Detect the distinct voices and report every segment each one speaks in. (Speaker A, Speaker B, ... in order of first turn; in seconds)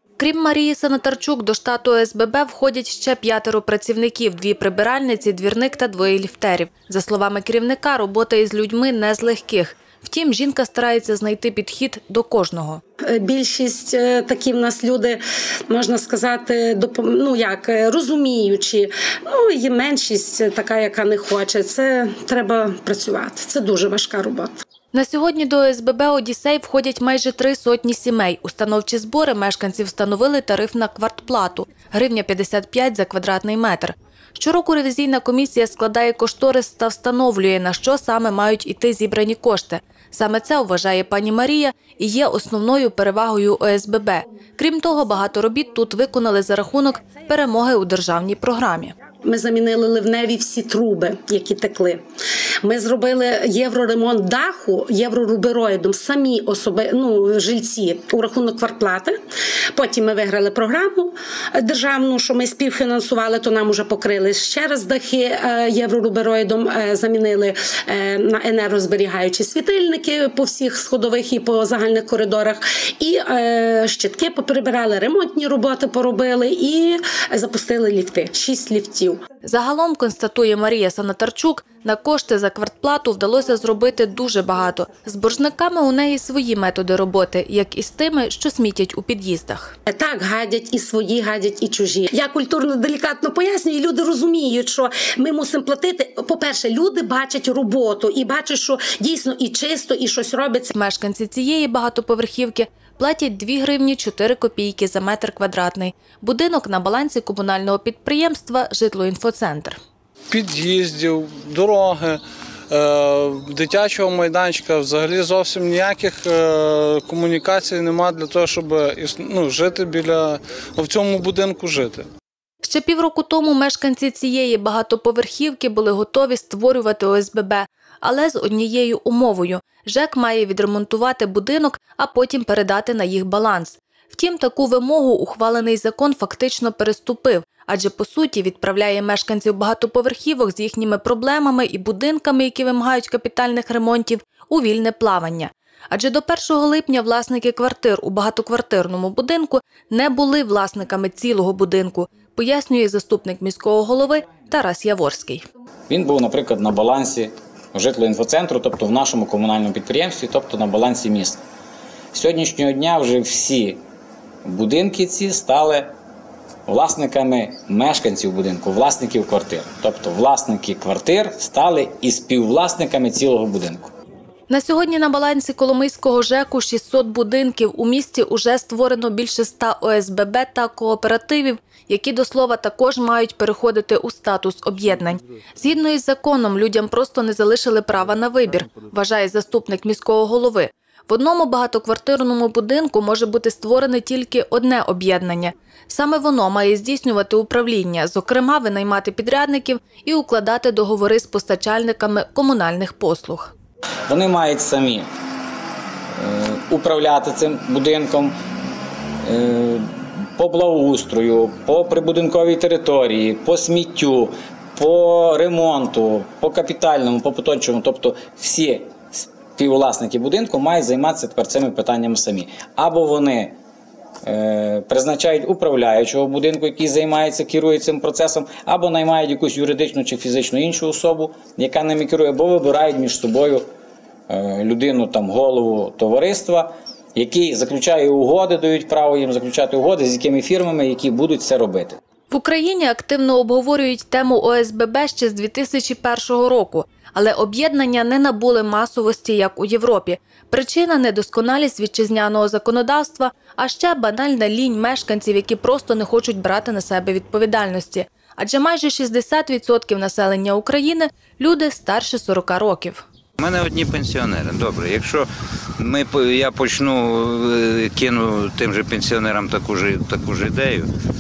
Speaker A: 0.2-12.8, 24.9-49.0, 79.4-89.8, 100.7-109.8, 122.6-155.5, 174.5-203.5, 242.3-263.0
Speaker B: 13.1-24.5, 49.2-52.0, 52.6-59.2, 59.8-79.2, 89.9-100.7
Speaker C: 110.3-122.1
Speaker D: 155.9-161.4, 162.1-163.8, 164.4-165.9, 166.7-173.9, 204.1-205.1, 206.2-208.3, 209.2-223.6, 224.2-233.7, 234.3-242.0
Speaker E: 263.4-270.9